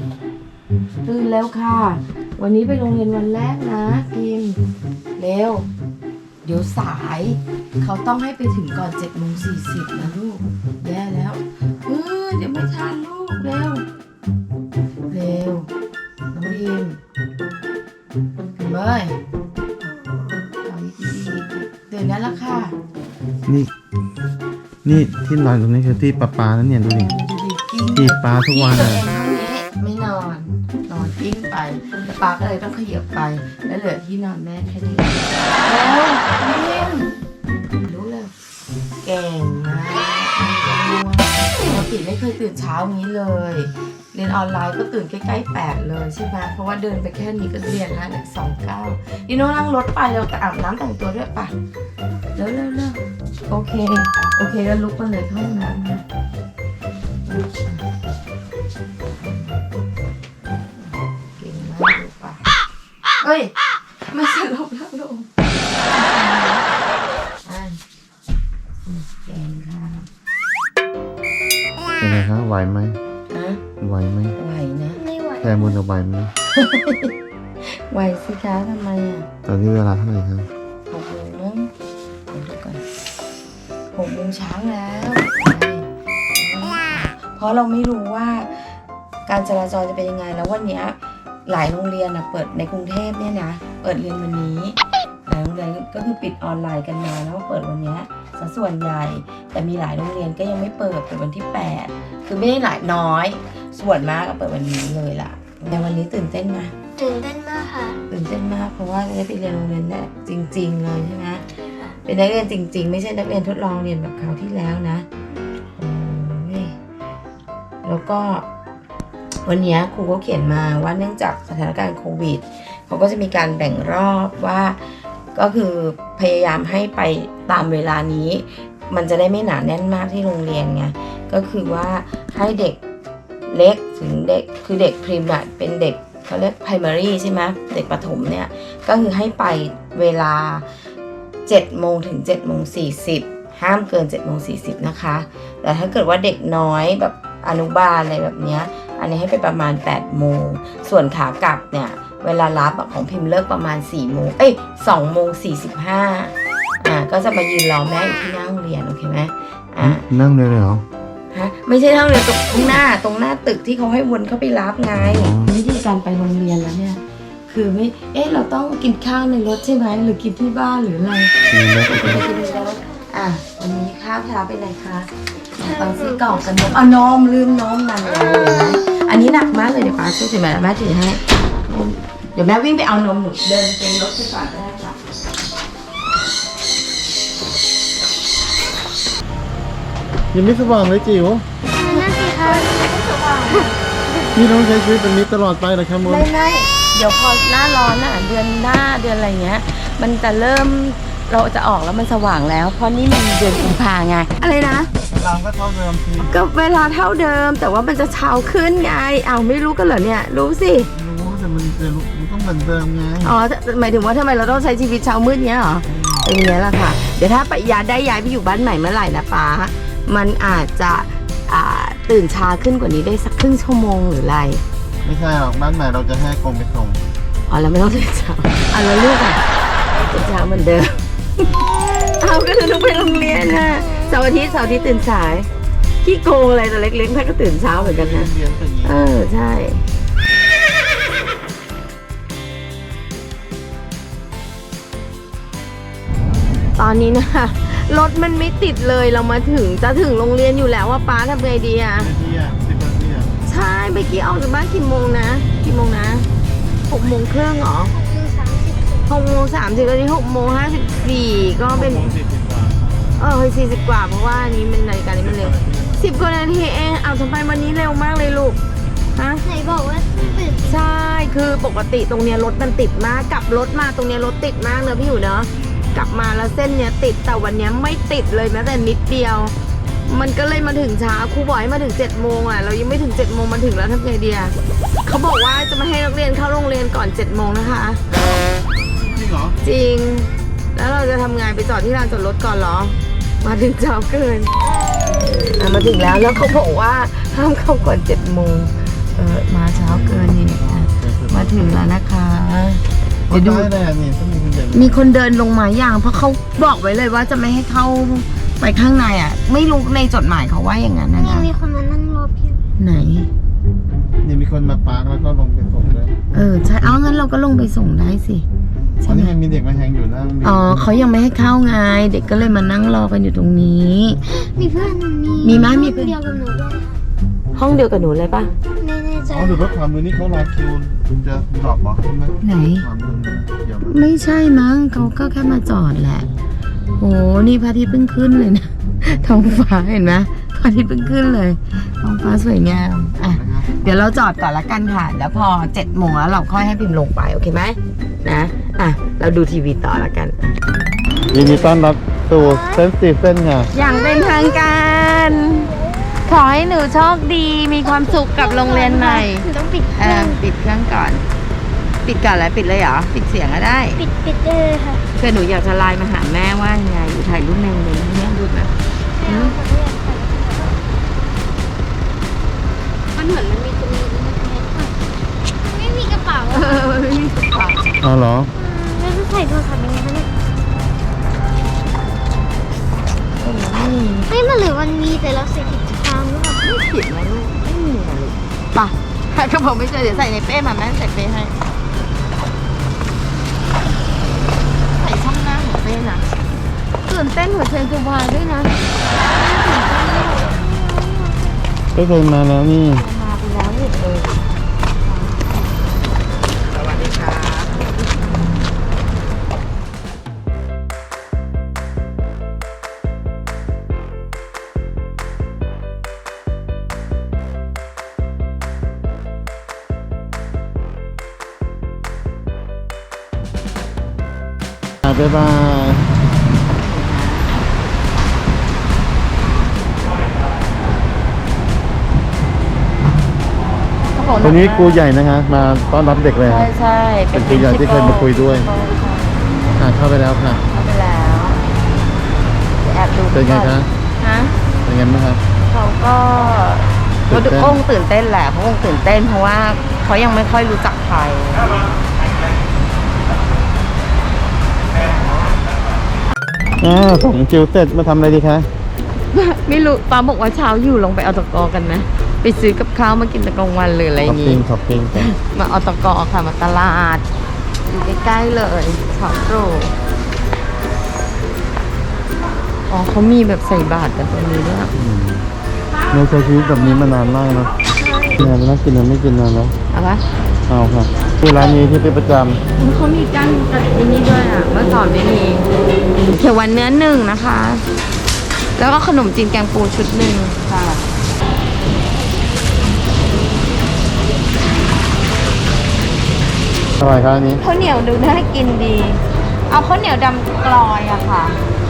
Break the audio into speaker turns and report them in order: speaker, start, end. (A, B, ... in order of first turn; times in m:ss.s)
0:01.0-0:04.6 A
0:05.2-0:05.7 A
0:06.4-0:13.8 A
0:15.1-0:15.7 A
0:16.3-0:17.0 A
0:18.6-0:19.2 A
0:20.6-0:22.8 A
0:23.5-0:23.7 B
0:24.8-0:27.1 B
0:27.0-0:37.1 A
0:28.0-0:29.1 B
0:37.8-0:38.3 A
0:39.0-0:51.6 A
0:52.4-0:56.0 A
0:57.3-0:57.8 A
0:59.2-0:59.6 A
1:00.8-1:02.4 A
1:03.2-1:03.5 A
1:04.1-1:05.3 A
1:05.8-1:06.7 A
1:07.4-1:07.8 A
1:08.9-1:10.1 A
1:12.0-1:13.0 B
1:13.3-1:13.6 A
1:13.8-1:14.4 B
1:14.4-1:15.0 A
1:15.0-1:15.8 C
1:15.4-1:16.3 B
1:16.5-1:17.1 A
1:17.6-1:19.3 A
1:19.4-1:20.5 B
1:20.9-1:21.7 A
1:22.3-1:22.8 A
1:23.9-1:28.7 A
1:29.3-1:46.8 A
1:47.0-1:48.0 C
1:48.1-1:51.4 A
1:52.0-1:55.1 A
1:55.8-1:56.8 A
1:57.8-1:58.5 A
1:59.4-2:04.8 A
2:05.4-2:12.8 A
2:13.5-2:20.7 A
2:21.5-2:40.1 A
2:39.8-2:40.8 B
2:41.3-3:05.0 A
2:45.0-2:45.5 B
2:51.5-2:52.3 B
3:10.3-3:11.4 B
3:11.8-3:12.7 C
3:11.8-3:13.8 A
3:14.3-3:16.3 B
3:16.0-3:24.9 A
3:25.0-3:26.3 B
3:26.2-3:30.9 A
3:31.0-3:33.4 B
3:33.2-3:44.6 A
3:35.9-3:36.3 B
3:45.0-3:47.0 B
3:47.5-3:49.4 A
3:49.9-3:55.5 A
3:56.0-3:59.8 A
3:57.8-3:59.0 B
4:06.8-4:12.1 A
4:12.0-4:13.4 B
4:13.5-4:16.3 A
4:16.9-4:18.0 A
4:17.9-4:19.1 C
4:19.1-4:22.2 A
4:21.7-4:22.8 B
4:23.2-4:28.6 A
4:25.2-4:26.0 B
4:29.1-4:29.4 A
4:29.4-4:30.8 C
4:30.6-4:39.5 A
4:40.1-4:48.0 A
4:49.0-4:49.6 B
4:49.6-4:54.5 A
4:55.4-5:03.7 A
4:59.7-5:01.7 B
5:03.3-5:05.0 B
5:04.7-5:11.5 A
5:11.2-5:12.6 C
5:12.8-5:13.3 A
5:14.2-5:16.3 B
5:16.3-5:18.5 A
5:19.0-5:19.4 A
5:19.0-5:20.9 B
5:20.4-5:24.2 A
5:24.2-5:27.0 C
5:25.4-5:26.2 A
5:27.6-5:28.5 A
5:28.8-5:29.7 C
5:29.3-5:34.1 B
5:32.4-5:32.9 A
5:33.8-5:36.3 A
5:37.0-5:50.6 A
5:43.2-5:43.7 B
5:51.3-5:53.7 B
5:51.3-5:51.8 A
5:52.3-5:52.8 C
5:53.7-5:55.7 A
5:53.8-5:54.7 C
5:56.3-6:01.2 A
5:57.9-6:00.4 C
6:02.0-6:04.0 A
6:04.0-6:05.0 C
6:05.2-6:08.7 A
6:09.2-6:10.8 C
6:09.2-6:09.6 A
6:13.2-6:13.7 A
6:13.4-6:14.9 C
6:15.6-6:16.9 C
6:16.5-6:17.8 A
6:18.0-6:18.5 B
6:18.6-6:20.3 C
6:23.4-6:24.3 A
6:24.3-6:26.6 C
6:26.6-6:31.6 A
6:35.0-6:36.3 A
6:37.0-6:38.7 A
6:39.3-6:41.5 C
6:39.6-6:39.9 A
6:42.0-6:43.0 B
6:42.9-6:44.4 A
6:45.0-6:45.6 A
6:46.7-6:48.3 A
7:05.0-7:06.0 B
7:06.7-7:07.6 A
7:14.1-7:15.0 A
7:14.4-7:16.7 B
7:16.4-7:19.6 A
7:17.3-7:18.7 B
7:19.8-7:20.6 B
7:20.7-7:21.6 A
7:22.8-7:24.5 A
7:23.3-7:23.9 B
7:24.8-7:25.4 B
7:25.7-7:32.0 A
7:27.3-7:27.8 B
7:34.9-7:35.6 A
7:36.8-7:38.7 B
7:39.3-7:47.3 A
7:44.2-7:45.3 B
7:47.9-7:50.0 A
7:52.9-7:54.9 A
7:55.0-7:55.5 B
7:56.1-7:57.7 B
7:58.0-7:58.4 A
7:58.4-7:59.8 B
7:59.9-8:00.2 A
8:00.7-8:02.6 B
8:02.8-8:05.7 A
8:06.3-8:07.8 A
8:08.8-8:11.0 A
8:17.0-8:17.6 B
8:17.6-8:21.6 A